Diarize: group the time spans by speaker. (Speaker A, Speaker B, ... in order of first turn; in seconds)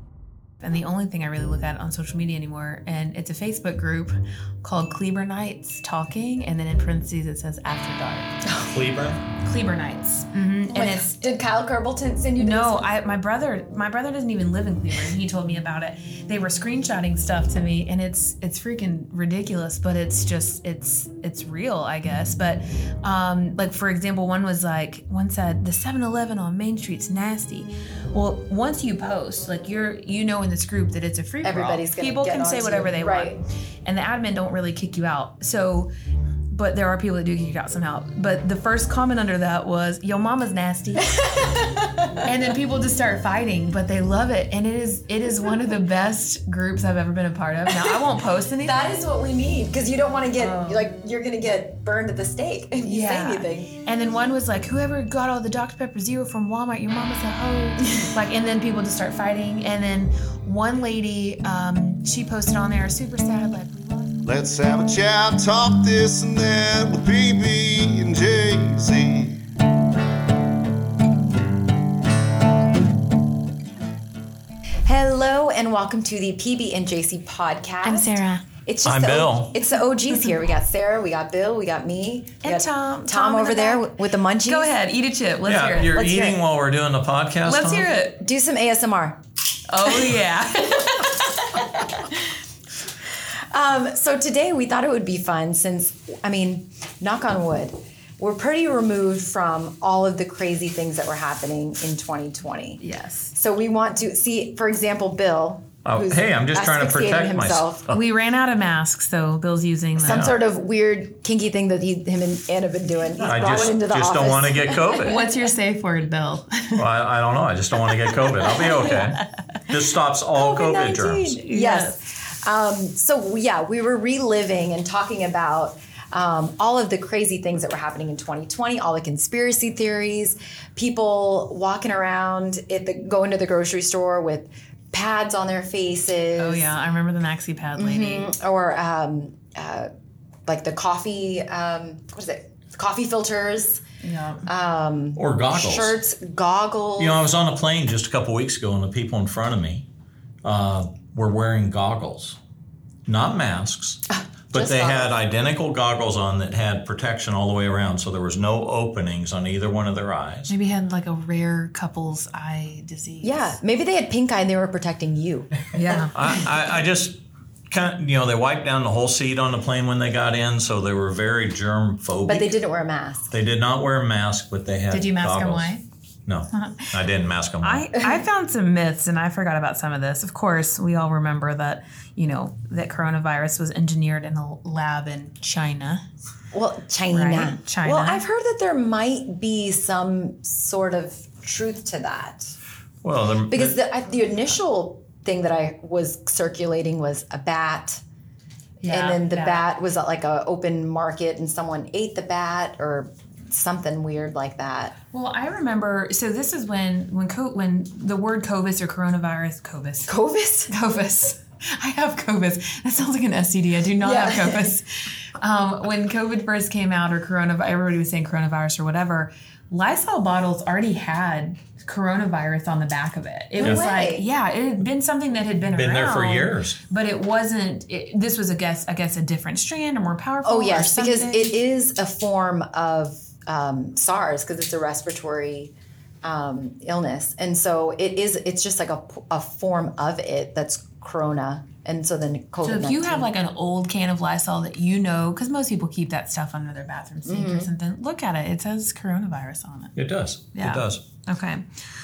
Speaker A: 0.6-8.4, 9.4-11.2, 12.4-35.9, 36.5-41.2, 42.2-48.8, 50.4-50.9, 52.8-64.1, 77.8-78.4, 82.4-86.4, 87.4-88.2, 89.7-91.8, 102.8-103.3, 107.9-110.3, 115.0-116.8, 118.6-119.0, 121.4-122.0, 136.4-138.3, 144.0-144.4, 160.5-163.6, 165.7-166.1, 174.9-175.8, 176.5-176.9, 177.6-186.0, 187.1-188.2, 198.8-199.7, 205.1-210.1, 210.7-231.6, 242.6-249.9, 250.5-251.6
Speaker B: 8.4-8.7, 10.7-12.9, 31.4-33.4, 41.1-42.2, 48.6-53.7, 74.8-84.8, 88.2-89.2, 89.8-90.1, 93.5-102.8, 103.3-107.8, 110.0-115.2, 120.3-136.7, 137.7-139.9, 140.4-143.8, 144.4-147.2, 154.1-155.1, 163.2-165.5, 172.2-173.3, 186.5-192.5, 193.5-198.0, 198.9-204.9, 210.1-210.7, 214.0-214.7, 223.6-224.2, 230.4-243.3, 247.2-247.7
Speaker C: 8.7-9.2, 78.8-79.6, 85.4-87.9, 105.8-108.0, 110.0-110.3, 113.2-115.2, 116.8-121.4, 145.2-145.9, 147.0-149.8, 150.4-152.4, 153.1-160.5, 166.1-167.2, 167.7-172.6, 173.3-175.7, 176.2-177.9, 193.0-193.8, 225.7-226.8, 249.9-251.0
Speaker D: 64.2-69.4